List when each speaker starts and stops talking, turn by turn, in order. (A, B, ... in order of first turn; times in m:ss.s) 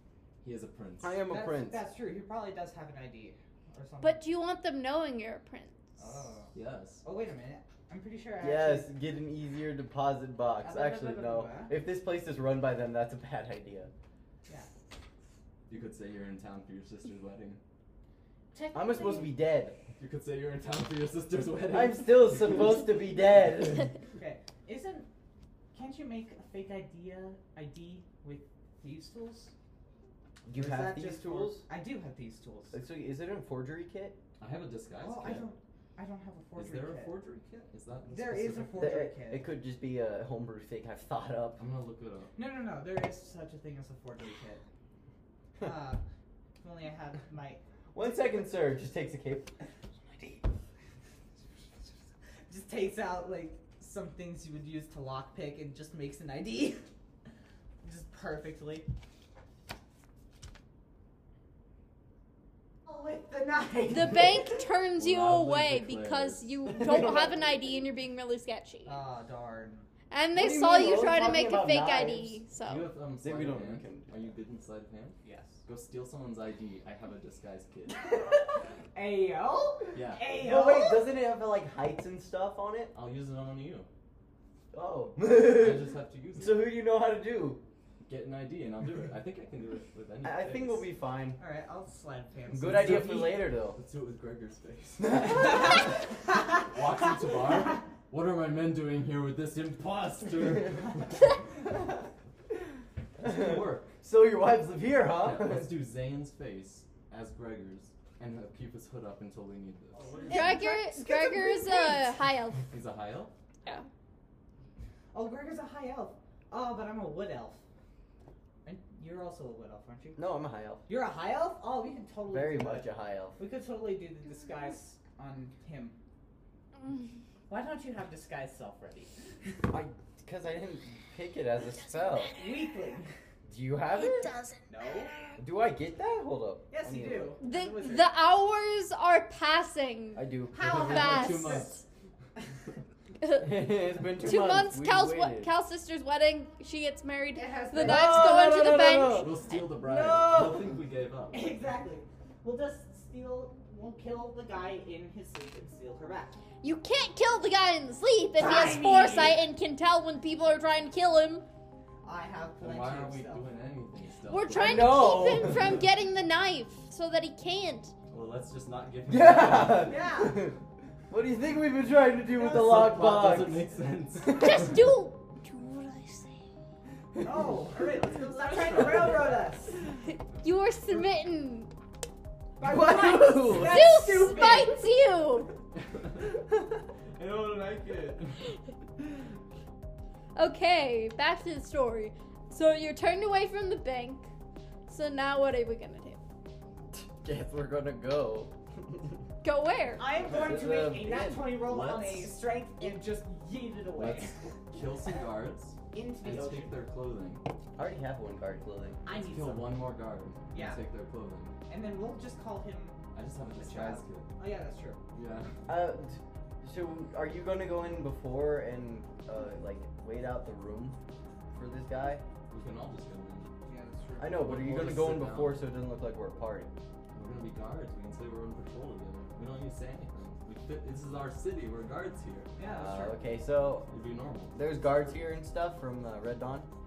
0:00.4-0:01.2 A
0:01.0-0:01.8 B
0:01.3-0:04.2 C
0:04.0-0:05.8 D
0:06.0-0:08.9 C
0:06.5-0:07.0 A
0:08.4-0:13.9 B
0:10.6-0:11.7 C
0:15.7-0:17.6 A
0:18.5-0:19.4 C
0:18.7-0:19.8 B
0:20.0-0:23.0 A
0:21.7-0:23.9 B
0:24.2-0:25.1 C
0:25.7-0:29.5 C
0:30.5-0:31.6 B
0:30.5-0:32.8 C
0:32.7-0:34.2 B
0:34.4-0:35.5 A
0:35.0-0:37.1 C
0:36.6-0:38.9 A
0:38.1-0:39.4 C
0:38.8-0:41.6 B
0:41.6-0:42.4 A
0:42.4-0:44.6 C
0:45.6-0:46.0 C
0:46.6-0:48.6 C
0:47.9-0:49.5 B
0:52.5-0:56.8 C
0:57.8-0:58.9 C
1:02.8-1:04.5 C
1:03.9-1:09.0 D
1:05.0-1:06.5 A
1:06.7-1:07.5 B
1:08.8-1:09.9 C
1:10.1-1:12.9 D
1:10.3-1:12.4 B
1:12.6-1:18.2 A
1:13.2-1:14.3 B
1:15.2-1:15.6 C
1:18.0-1:21.0 C
1:19.9-1:20.2 A
1:20.3-1:22.9 B
1:22.9-1:23.9 A
1:24.7-1:27.6 B
1:25.4-1:26.7 A
1:28.1-1:30.9 A
1:30.2-1:31.4 B
1:31.4-1:33.3 C
1:32.5-1:36.0 A
1:32.5-1:33.8 B
1:35.0-1:35.7 B
1:36.6-1:41.4 A
1:43.2-1:45.8 B
1:43.2-1:43.9 A
1:45.2-1:50.1 A
1:49.9-1:52.0 C
1:50.3-1:52.7 D
1:52.7-1:53.3 A
1:55.1-1:57.6 C
1:58.6-2:00.2 C
2:00.2-2:00.8 B
2:00.9-2:06.0 C
2:02.3-2:03.4 B
2:07.5-2:09.6 C
2:09.7-2:12.4 B
2:12.4-2:13.1 C
2:13.5-2:14.3 B
2:14.1-2:14.6 D
2:14.7-2:15.1 C
2:15.4-2:17.4 B
2:16.7-2:18.1 C
2:17.4-2:21.7 D
2:20.2-2:21.3 B
2:20.5-2:21.7 C
2:20.7-2:21.8 A
2:23.2-2:29.4 D
2:23.4-2:25.5 B
2:27.4-2:28.4 C
2:27.8-2:30.7 B
2:29.1-2:31.5 A
2:31.3-2:36.4 C
2:36.6-2:41.5 D
2:38.4-2:39.4 C
2:42.0-2:43.5 C
2:42.6-2:45.3 A
2:44.3-2:47.9 D
2:44.6-2:45.8 B
2:48.1-2:50.0 A
2:49.1-2:50.6 B
2:49.7-2:50.4 C
2:51.1-2:53.7 B
2:52.4-2:54.7 A
2:54.2-2:54.8 B
2:54.3-2:56.4 D
2:57.2-2:59.8 C
2:58.3-2:59.3 A
3:00.1-3:01.7 D
3:02.6-3:04.8 C
3:02.6-3:03.9 B
3:03.5-3:05.5 D
3:07.2-3:08.4 A
3:10.4-3:14.3 D
3:14.9-3:16.2 D
3:16.9-3:19.2 B
3:19.4-3:20.1 D
3:20.0-3:24.4 C
3:20.3-3:21.5 B
3:21.6-3:22.4 A
3:24.0-3:27.4 A
3:25.9-3:26.8 C
3:27.8-3:29.0 B
3:29.0-3:29.8 C
3:29.1-3:31.6 A
3:30.5-3:30.8 C
3:31.7-3:33.0 C
3:33.1-3:34.3 A
3:33.6-3:35.0 C
3:35.1-3:35.6 A
3:35.7-3:41.0 B
3:41.5-3:42.2 B
3:42.5-3:43.5 A
3:43.7-3:44.4 C
3:44.2-3:46.7 B
3:44.4-3:45.7 A
3:47.1-3:52.5 A
3:52.6-3:53.2 C
3:52.6-3:53.9 B
3:53.9-3:54.6 A
3:54.5-3:56.7 B